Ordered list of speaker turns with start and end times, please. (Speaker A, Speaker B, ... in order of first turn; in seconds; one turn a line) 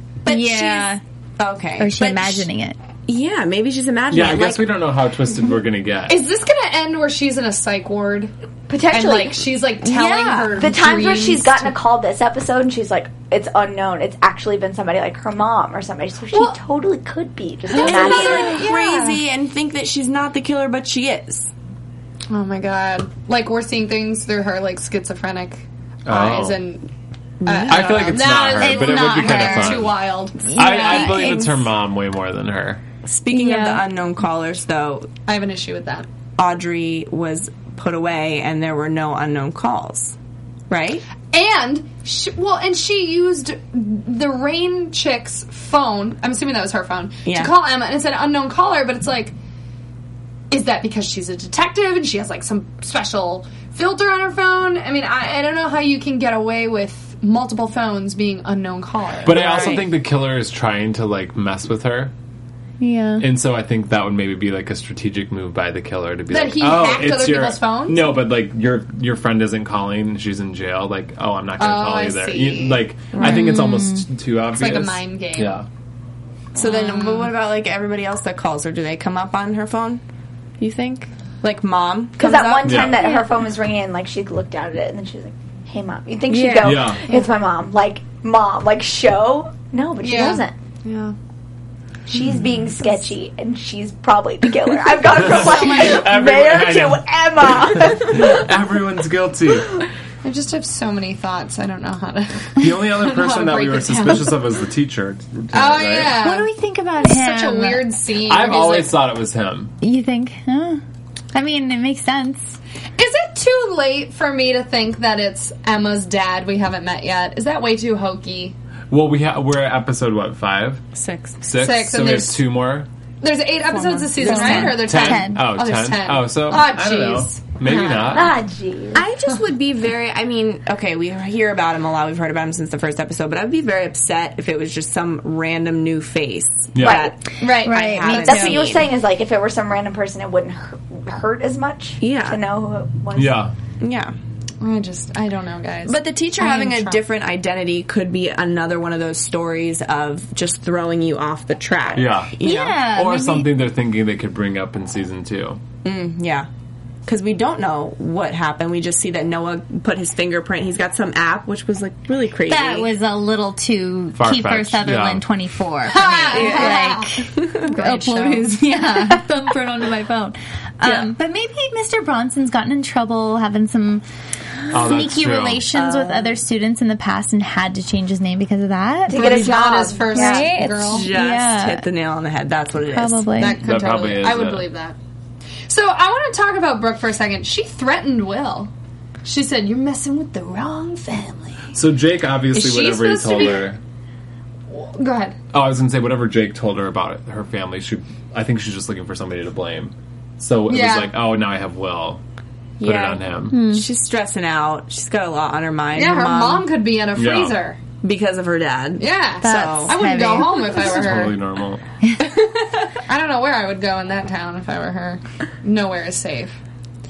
Speaker A: 0.2-2.5
Speaker B: 0.3-1.0
Speaker B: 1.8-2.8
Speaker A: 3.1-4.8
Speaker C: 4.1-6.2
Speaker D: 6.1-8.3
Speaker E: 8.7-9.4
Speaker D: 8.9-11.7
Speaker A: 9.9-10.5
Speaker B: 10.2-10.5
Speaker E: 10.5-18.6
Speaker D: 16.3-16.6
Speaker D: 17.7-19.2
Speaker A: 17.8-21.5
Speaker D: 22.3-26.9
Speaker C: 26.1-26.6
Speaker A: 27.4-28.2
Speaker D: 27.4-31.4
Speaker C: 27.7-29.9
Speaker B: 28.6-29.9
Speaker B: 30.4-31.7
Speaker C: 30.5-32.8
Speaker A: 33.0-35.1
Speaker B: 33.3-33.8
Speaker D: 35.3-36.1
Speaker A: 36.4-40.2
Speaker A: 40.7-41.0
Speaker D: 41.3-49.3
Speaker A: 47.3-47.5
Speaker D: 50.5-59.9
Speaker C: 59.2-62.1
Speaker A: 59.3-59.9
Speaker B: 62.8-63.3
Speaker C: 63.2-75.7
Speaker D: 66.3-68.2
Speaker D: 71.6-72.9
Speaker A: 73.1-73.5
Speaker B: 73.2-74.1
Speaker D: 74.5-75.6
Speaker A: 76.5-80.0
Speaker D: 76.6-77.3
Speaker A: 80.6-83.0
Speaker E: 82.2-90.5
Speaker C: 82.6-83.0
Speaker A: 86.3-86.9
Speaker C: 86.6-87.0
Speaker D: 90.0-91.2
Speaker E: 92.1-98.5
Speaker C: 95.1-99.9
Speaker D: 100.2-104.4
Speaker C: 102.6-106.2
Speaker D: 105.5-109.0
Speaker B: 106.2-107.9
Speaker C: 108.2-109.7
Speaker B: 109.8-110.8
Speaker B: 111.3-112.6
Speaker D: 113.0-118.5
Speaker C: 118.9-120.8
Speaker A: 121.0-121.4
Speaker C: 121.4-122.9
Speaker D: 121.5-122.5
Speaker D: 123.2-128.3
Speaker A: 123.7-124.8
Speaker B: 124.2-125.5
Speaker C: 124.3-128.3
Speaker E: 128.1-129.0
Speaker A: 128.9-138.9
Speaker C: 136.8-137.0
Speaker E: 136.8-137.1
Speaker D: 137.4-138.3
Speaker B: 137.6-138.7
Speaker E: 138.1-143.4
Speaker A: 142.0-142.4
Speaker C: 143.2-143.5
Speaker A: 143.8-144.2
Speaker D: 144.6-147.0
Speaker A: 145.9-152.8
Speaker C: 151.9-155.6
Speaker B: 152.4-153.5
Speaker A: 155.8-156.5
Speaker A: 157.1-162.9
Speaker B: 162.5-174.0
Speaker C: 164.2-165.3
Speaker D: 165.9-168.6
Speaker A: 166.3-167.6
Speaker A: 170.8-171.1
Speaker B: 174.7-179.5
Speaker C: 174.7-175.7
Speaker A: 175.7-176.4
Speaker E: 179.1-180.5
Speaker D: 179.1-181.1
Speaker B: 180.1-181.8
Speaker A: 180.7-183.3
Speaker B: 182.9-183.6
Speaker D: 183.4-185.0
Speaker C: 183.6-184.7
Speaker D: 185.7-188.7
Speaker D: 189.2-191.8
Speaker C: 191.7-193.8
Speaker D: 192.5-193.7
Speaker D: 194.7-195.4
Speaker C: 195.5-202.2
Speaker D: 200.7-201.2
Speaker A: 202.8-206.7
Speaker C: 202.8-203.6
Speaker B: 203.5-203.9
Speaker D: 205.9-207.8
Speaker C: 207.2-207.6
Speaker A: 208.0-210.0
Speaker D: 209.0-211.4
Speaker B: 209.4-210.9
Speaker C: 210.8-211.8
Speaker D: 213.1-216.6